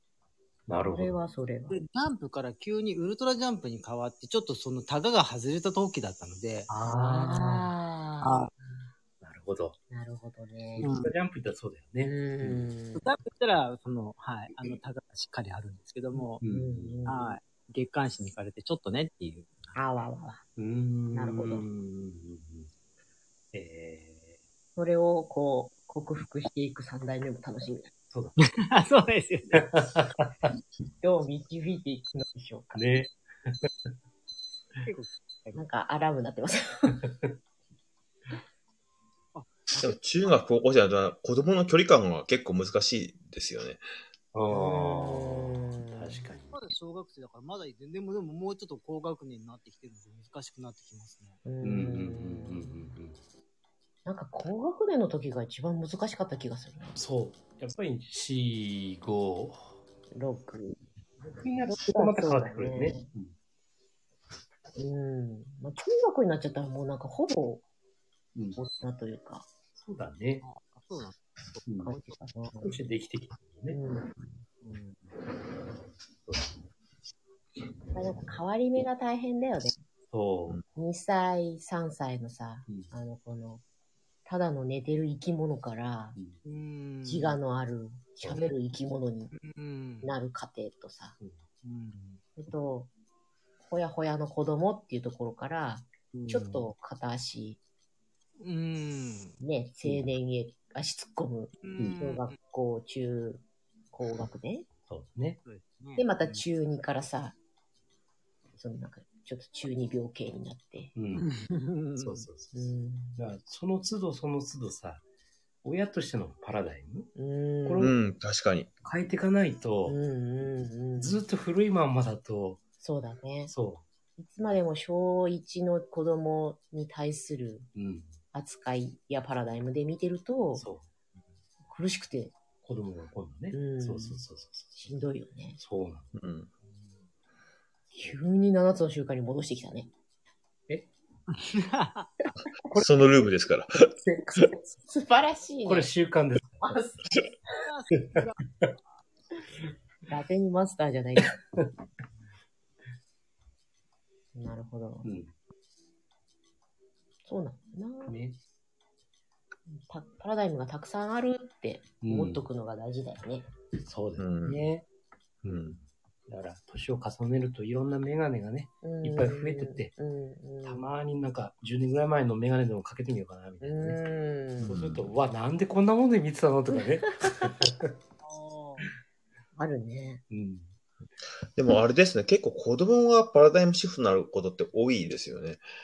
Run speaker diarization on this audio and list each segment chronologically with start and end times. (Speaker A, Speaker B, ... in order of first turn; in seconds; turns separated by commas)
Speaker A: 0.7-1.2, Speaker B: 0.9-1.8, Speaker C: 1.7-6.7, Speaker A: 6.7-7.7, Speaker B: 6.9-8.8, Speaker C: 8.2-8.5, Speaker A: 9.2-9.8, Speaker B: 9.9-10.9, Speaker A: 10.8-12.7, Speaker C: 10.8-11.1, Speaker B: 12.0-13.1, Speaker C: 12.9-16.4, Speaker A: 16.4-17.0, Speaker B: 16.4-17.2, Speaker C: 17.1-19.6, Speaker B: 19.7-20.4, Speaker A: 20.6-22.7, Speaker B: 21.1-21.6, Speaker A: 23.5-24.4, Speaker B: 24.8-27.9, Speaker A: 28.1-28.4, Speaker C: 28.4-29.7, Speaker A: 29.5-30.5, Speaker B: 31.0-32.8, Speaker A: 32.7-33.7, Speaker C: 34.9-35.6, Speaker B: 35.5-37.0, Speaker C: 39.3-39.8, Speaker D: 39.8-43.8, Speaker A: 44.3-46.6, Speaker B: 44.5-46.2, Speaker C: 46.5-51.4, Speaker B: 51.5-52.9, Speaker A: 51.6-53.2, Speaker B: 54.0-57.0, Speaker A: 57.0-59.8, Speaker B: 60.1-60.8, Speaker A: 61.2-63.4, Speaker B: 61.7-63.1, Speaker B: 64.8-67.6, Speaker B: 68.6-69.5, Speaker A: 69.8-70.5, Speaker C: 70.4-72.1, Speaker A: 71.7-72.0, Speaker B: 71.8-72.7, Speaker A: 72.6-73.8, Speaker B: 73.7-74.2, Speaker C: 74.6-75.1, Speaker A: 76.3-76.5, Speaker B: 77.9-79.8, Speaker A: 80.1-80.6, Speaker B: 80.8-83.6, Speaker A: 82.7-82.9, Speaker B: 84.3-86.2, Speaker C: 86.4-87.4, Speaker B: 87.0-89.3, Speaker C: 89.3-90.1, Speaker B: 90.0-91.2, Speaker C: 91.6-92.2, Speaker B: 92.4-92.9, Speaker B: 93.7-97.6, Speaker C: 96.1-96.6, Speaker C: 98.4-99.4, Speaker B: 99.4-103.4, Speaker C: 101.6-102.3, Speaker B: 103.9-104.7, Speaker A: 104.9-105.4, Speaker C: 105.5-106.4, Speaker B: 106.0-107.4, Speaker B: 108.6-110.9, Speaker A: 111.0-111.2, Speaker C: 111.2-112.3, Speaker A: 112.0-112.5, Speaker B: 112.5-113.2, Speaker A: 113.2-115.0, Speaker A: 115.6-117.1, Speaker B: 117.2-117.9, Speaker A: 117.7-117.9, Speaker D: 117.8-118.7, Speaker A: 118.8-120.0, Speaker B: 119.9-121.2, Speaker A: 121.0-122.6, Speaker B: 122.8-123.5, Speaker A: 123.5-123.8, Speaker B: 124.2-127.7, Speaker A: 127.8-128.2, Speaker B: 128.3-130.7, Speaker A: 130.6-130.9, Speaker B: 131.7-132.3, Speaker A: 132.6-135.0, Speaker B: 133.5-134.2, Speaker B: 134.8-135.6, Speaker A: 135.6-136.1, Speaker D: 136.1-136.5, Speaker B: 137.9-139.9, Speaker C: 141.3-142.1, Speaker D: 142.7-143.9, Speaker B: 144.1-145.9, Speaker A: 145.7-146.8, Speaker B: 146.6-147.3, Speaker C: 147.7-148.4, Speaker A: 148.1-148.7, Speaker B: 150.1-151.4, Speaker B: 154.3-155.1, Speaker A: 155.0-155.3, Speaker B: 157.3-158.2, Speaker A: 158.1-158.4, Speaker B: 159.7-163.5, Speaker A: 162.0-162.5, Speaker A: 163.8-164.9, Speaker D: 164.2-164.7, Speaker A: 165.4-169.9, Speaker D: 165.5-165.8, Speaker B: 168.8-170.9, Speaker A: 170.6-174.0, Speaker B: 173.6-174.9, Speaker A: 174.6-177.9, Speaker D: 174.7-175.1, Speaker B: 177.2-177.5, Speaker C: 178.2-178.9, Speaker B: 179.6-180.2, Speaker A: 180.3-180.7, Speaker D: 181.6-185.6